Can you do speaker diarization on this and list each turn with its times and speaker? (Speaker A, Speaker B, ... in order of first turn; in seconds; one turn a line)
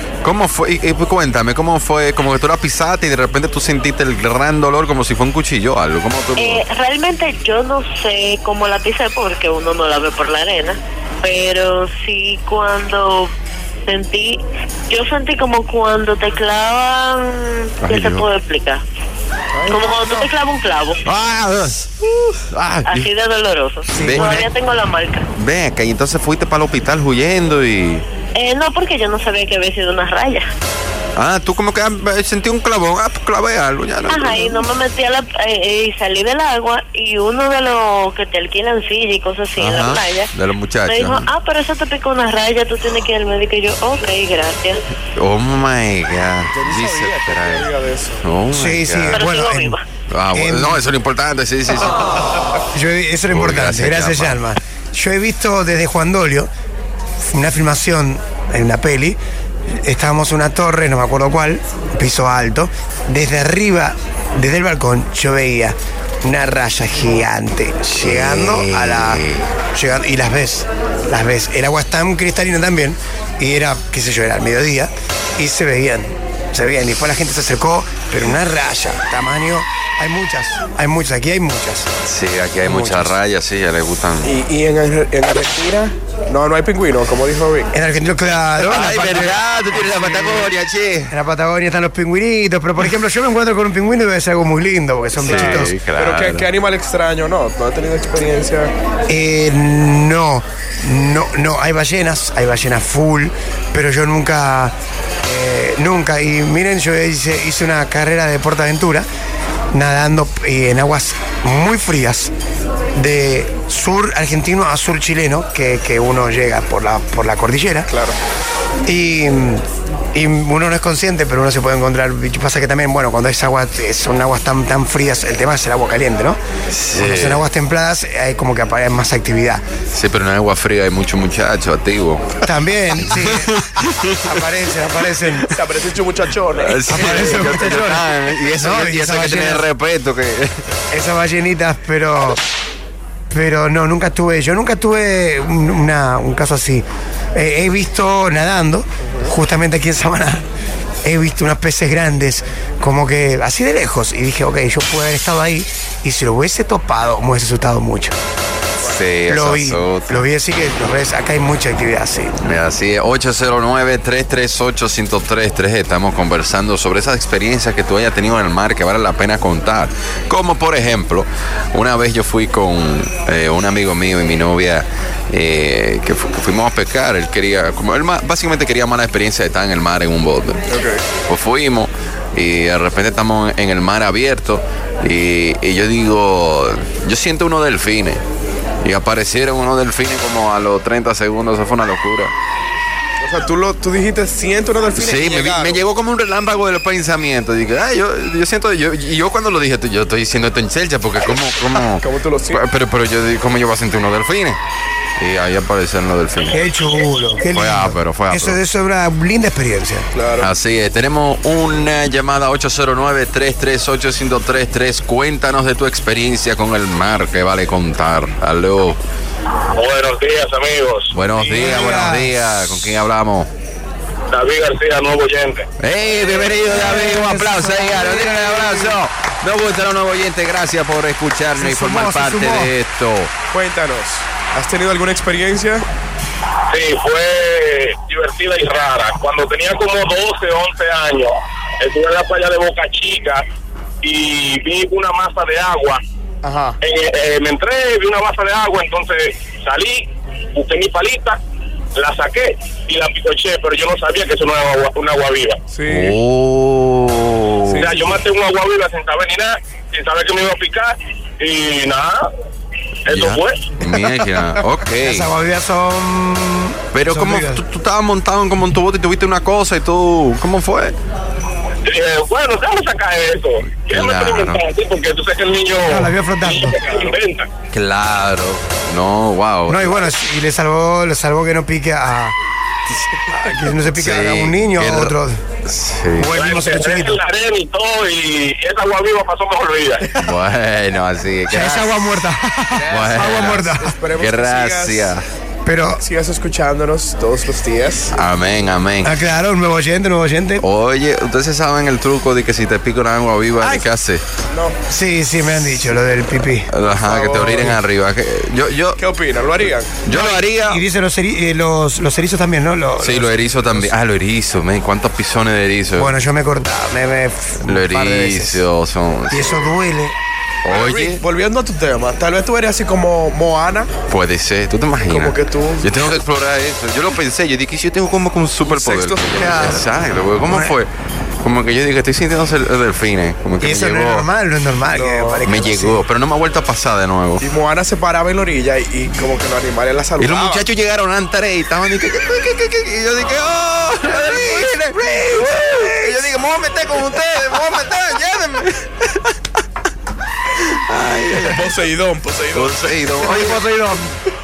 Speaker A: 0.2-6.6
Speaker B: 6.4-13.3
Speaker B: 13.8-18.8
Speaker A: 17.8-18.3
Speaker C: 19.5-20.3
Speaker B: 19.7-21.0
Speaker A: 21.0-23.1
Speaker B: 22.9-25.3
Speaker D: 23.9-24.4
Speaker A: 24.0-24.5
Speaker A: 25.4-28.0
Speaker B: 28.3-30.5
Speaker A: 31.1-34.7
Speaker B: 34.1-40.3
Speaker A: 39.6-41.3
Speaker B: 40.9-44.8
Speaker A: 45.1-49.2
Speaker C: 46.5-48.2
Speaker D: 48.5-49.8
Speaker B: 49.1-49.8
Speaker A: 50.1-52.5
Speaker D: 50.3-50.8
Speaker D: 52.7-56.5
Speaker A: 53.3-54.4
Speaker D: 57.3-59.2
Speaker D: 59.8-81.9
Speaker A: 67.9-69.5
Speaker A: 82.0-84.3
Speaker D: 82.6-83.2
Speaker C: 84.2-87.7
Speaker D: 87.7-90.5
Speaker A: 88.6-91.1
Speaker D: 91.1-95.8
Speaker A: 95.2-96.5
Speaker C: 95.2-98.7
Speaker D: 99.1-109.0
Speaker D: 109.7-112.3
Speaker D: 112.9-117.9
Speaker C: 117.9-118.2
Speaker D: 118.8-126.4
Speaker A: 126.7-127.4
Speaker D: 127.0-129.6
Speaker A: 129.9-132.3
Speaker D: 132.4-133.6
Speaker A: 133.0-134.4
Speaker D: 134.2-135.5
Speaker C: 135.4-137.5
Speaker A: 136.6-140.5
Speaker D: 136.9-139.7
Speaker D: 140.9-142.4
Speaker D: 143.3-150.4
Speaker D: 151.0-158.1
Speaker A: 158.8-160.3
Speaker D: 159.3-162.3
Speaker A: 162.4-180.6
Speaker C: 180.7-181.0
Speaker A: 181.3-188.2
Speaker A: 188.8-192.3
Speaker C: 193.2-195.8
Speaker A: 194.9-204.6
Speaker C: 201.8-202.6
Speaker A: 205.2-206.6
Speaker D: 206.5-210.1
Speaker A: 207.5-208.6
Speaker C: 210.1-210.5
Speaker A: 210.4-219.0
Speaker E: 219.8-221.1
Speaker A: 221.1-223.5
Speaker D: 221.4-222.9
Speaker E: 224.3-225.7
Speaker A: 225.8-233.3
Speaker D: 226.5-229.0
Speaker D: 231.6-232.7
Speaker C: 233.5-235.8
Speaker E: 236.7-243.4
Speaker E: 244.0-246.0
Speaker C: 246.4-246.8
Speaker E: 246.8-251.4
Speaker E: 251.9-255.6
Speaker C: 255.7-256.1
Speaker A: 255.8-258.0
Speaker C: 257.6-258.2
Speaker E: 257.8-262.2
Speaker E: 263.1-263.6
Speaker A: 263.1-265.3
Speaker D: 265.0-267.6
Speaker A: 266.9-270.9
Speaker E: 271.9-277.5
Speaker A: 273.9-274.6
Speaker D: 275.8-276.8
Speaker C: 276.8-277.2
Speaker A: 277.7-280.0
Speaker D: 279.7-282.4
Speaker D: 283.2-285.4
Speaker A: 283.9-285.1
Speaker A: 285.6-286.3
Speaker D: 286.2-287.2
Speaker E: 286.3-290.1
Speaker A: 290.2-292.2
Speaker D: 291.5-293.9
Speaker C: 292.8-295.2
Speaker A: 292.9-295.3
Speaker D: 295.6-296.0
Speaker C: 295.9-298.1
Speaker A: 298.1-299.1
Speaker D: 299.0-300.6
Speaker A: 300.6-304.2
Speaker C: 303.6-303.9
Speaker C: 304.5-304.8
Speaker D: 304.9-306.7
Speaker A: 306.7-309.0
Speaker C: 306.9-307.8
Speaker C: 309.0-310.0
Speaker A: 309.6-310.8
Speaker D: 310.1-313.9
Speaker A: 313.0-316.1
Speaker D: 315.9-318.6
Speaker A: 317.6-319.7
Speaker D: 319.3-320.1
Speaker A: 320.6-321.2
Speaker C: 320.6-323.9
Speaker A: 324.1-334.3
Speaker C: 325.1-326.2
Speaker C: 328.6-329.7
Speaker D: 329.4-329.9
Speaker D: 330.5-330.8
Speaker D: 333.6-336.0
Speaker C: 334.9-335.4
Speaker A: 335.4-337.4
Speaker C: 337.4-340.6
Speaker A: 340.2-349.3
Speaker D: 344.1-346.4
Speaker A: 350.5-351.9
Speaker C: 351.4-353.3
Speaker A: 352.5-353.6
Speaker D: 353.2-354.1